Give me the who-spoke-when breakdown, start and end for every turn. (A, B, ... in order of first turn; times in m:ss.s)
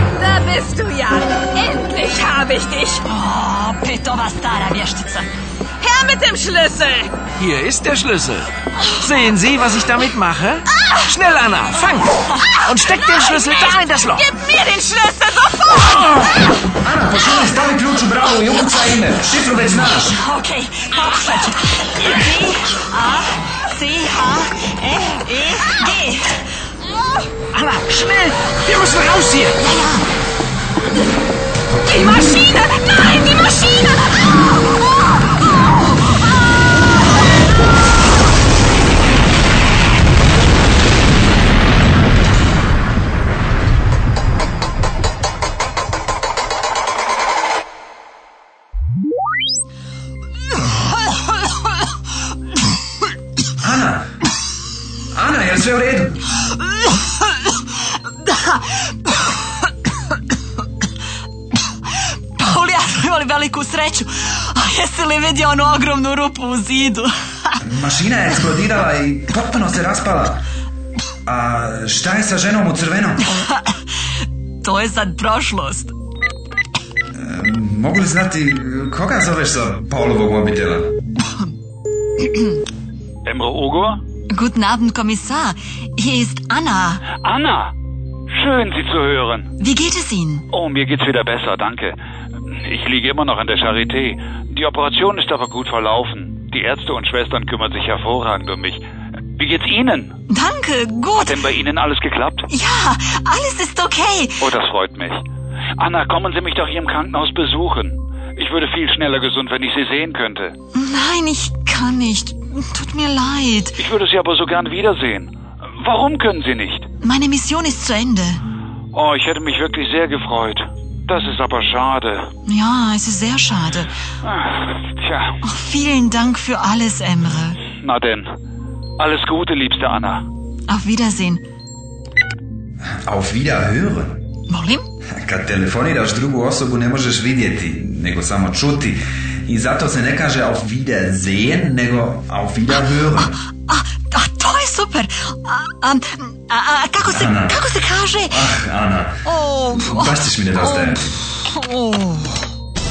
0:00.2-0:03.0 A
0:03.0-0:05.3 B
0:05.8-0:07.2 A
0:07.4-0:14.3 C
0:12.3-0:13.5 B
0:13.4-0:16.1 A
0:16.8-0:20.2 D
0:20.0-0:26.5 B
0:22.0-0:22.3 C
0:27.5-0:29.6 C
0:29.6-0:30.0 B
0:31.9-0:33.0 A
0:32.0-0:33.4 B
0:53.6-0:54.1 D
0:55.1-0:56.2 D
0:58.2-0:59.1 B
1:02.4-1:07.6 B
1:07.6-1:10.4 D
1:11.2-1:13.3 D
1:13.2-1:13.8 B
1:14.6-1:15.9 B
1:17.1-1:20.9 D
1:23.2-1:24.0 E
1:24.3-1:27.1 B
1:27.2-1:27.7 E
1:28.3-1:29.5 E
1:29.6-1:30.4 B
1:30.5-1:31.9 E
1:32.6-1:38.8 E
1:39.4-1:40.2 E
1:40.3-1:41.5 B
1:41.2-1:42.5 E
1:42.5-1:44.5 B
1:44.4-1:45.2 E
1:45.8-1:50.5 E
1:50.7-1:53.8 B
1:53.8-1:56.9 E
1:57.0-1:58.4 B
1:58.9-2:02.3 E
2:02.4-2:03.9 B
2:04.2-2:05.4 E
2:05.4-2:07.6 B
2:07.8-2:08.3 E
2:09.0-2:10.2 E
2:10.7-2:11.4 B
2:12.9-2:14.2 D
2:14.5-2:14.8 B
2:15.1-2:23.4 D
2:23.7-2:28.5 B
2:27.1-2:27.6 D
2:28.3-2:29.2 D
2:29.2-2:32.4 B
2:29.7-2:31.1 D